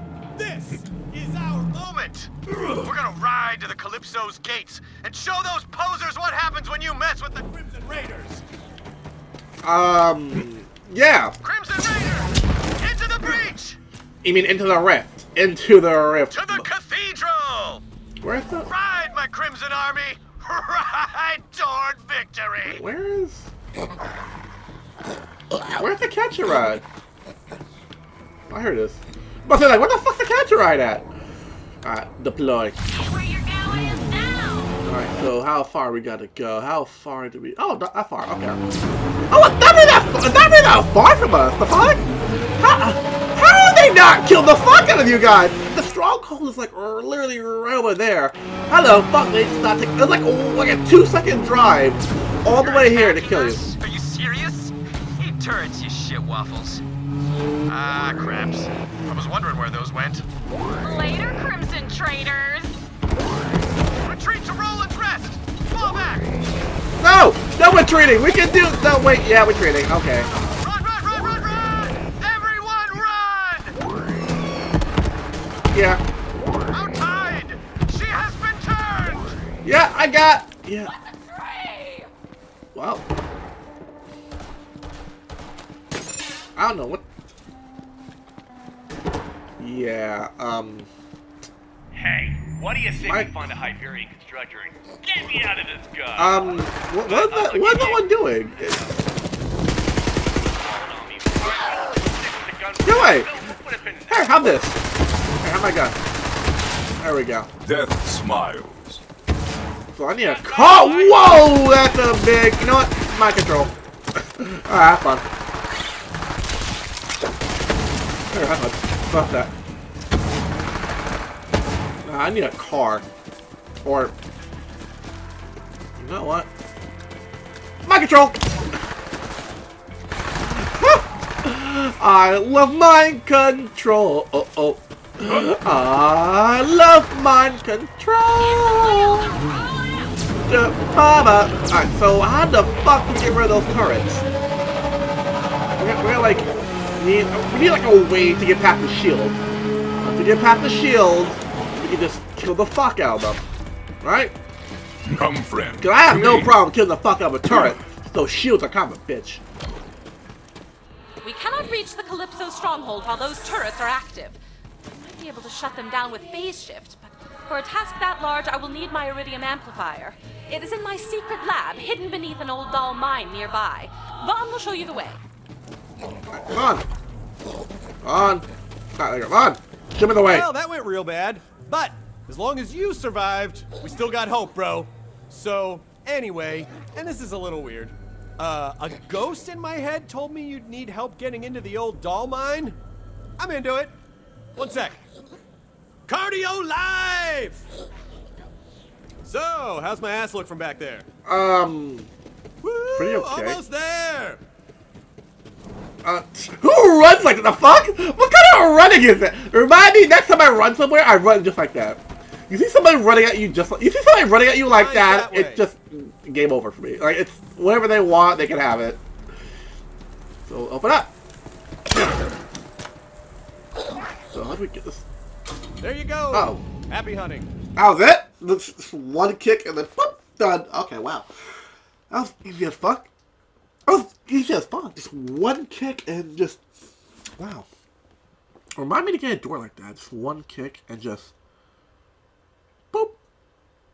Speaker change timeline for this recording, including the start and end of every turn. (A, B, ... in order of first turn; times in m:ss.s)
0:00.4-0:02.0 A
0:02.8-0:07.3 B
0:07.4-0:08.4 A
0:09.6-0:11.3 C
0:11.4-0:13.8 B
0:14.2-0:16.6 C
0:16.3-0:17.8 B
0:18.2-0:18.7 C
0:18.6-0:22.8 B
0:22.6-0:23.5 C
0:25.7-0:26.8 C
0:28.5-0:31.1 C
0:31.8-0:32.8 C
0:32.9-0:34.8 D
0:34.8-0:38.6 C
0:39.3-0:53.7 C
0:52.5-0:56.8 B
0:57.6-1:00.2 B
1:00.8-1:02.8 D
1:04.0-1:06.3 B
1:07.0-1:10.3 C
1:10.3-1:13.8 B
1:15.7-1:16.0 C
1:16.7-1:19.4 B
1:19.6-1:20.9 C
1:21.1-1:22.0 D
1:22.7-1:23.1 C
1:26.6-1:27.0 C
1:29.6-1:30.9 C
1:31.9-1:39.0 E
1:33.0-1:33.5 C
1:36.1-1:38.9 C
1:40.2-1:44.6 E
1:42.8-1:43.4 C
1:44.1-1:44.8 C
1:45.4-1:46.0 C
1:47.0-1:47.5 C
1:47.6-1:49.0 F
1:49.9-1:55.3 C
1:50.2-1:51.7 E
1:58.3-1:59.5 C
2:02.0-2:03.1 C
2:03.8-2:04.1 C
2:06.0-2:06.5 C
2:07.8-2:08.6 C
2:10.5-2:19.3 C
2:18.4-2:20.4 G
2:20.4-2:24.2 C
2:25.8-2:29.4 C
2:30.0-2:33.4 C
2:34.0-2:34.3 C
2:35.0-2:36.6 F
2:35.8-2:39.4 C
2:41.2-2:55.2 G
2:56.3-2:56.9 C
2:58.0-3:00.5 C
3:00.2-3:12.8 A
3:13.4-3:13.9 A
3:14.6-3:15.0 A
3:16.1-3:17.6 A
3:19.2-3:21.0 A
3:21.2-3:22.1 C
3:22.6-3:24.4 A
3:22.9-3:23.6 C
3:26.0-3:39.0 C
3:34.7-3:35.6 A
3:40.4-3:41.1 C
3:41.9-3:42.3 C
3:44.3-3:45.0 C
3:45.8-3:47.5 A
3:46.3-3:46.6 C
3:47.8-3:51.3 C
3:52.1-3:53.1 C
3:53.9-3:56.7 C
3:57.4-3:57.7 C
3:58.8-4:01.3 C
4:02.9-4:03.2 C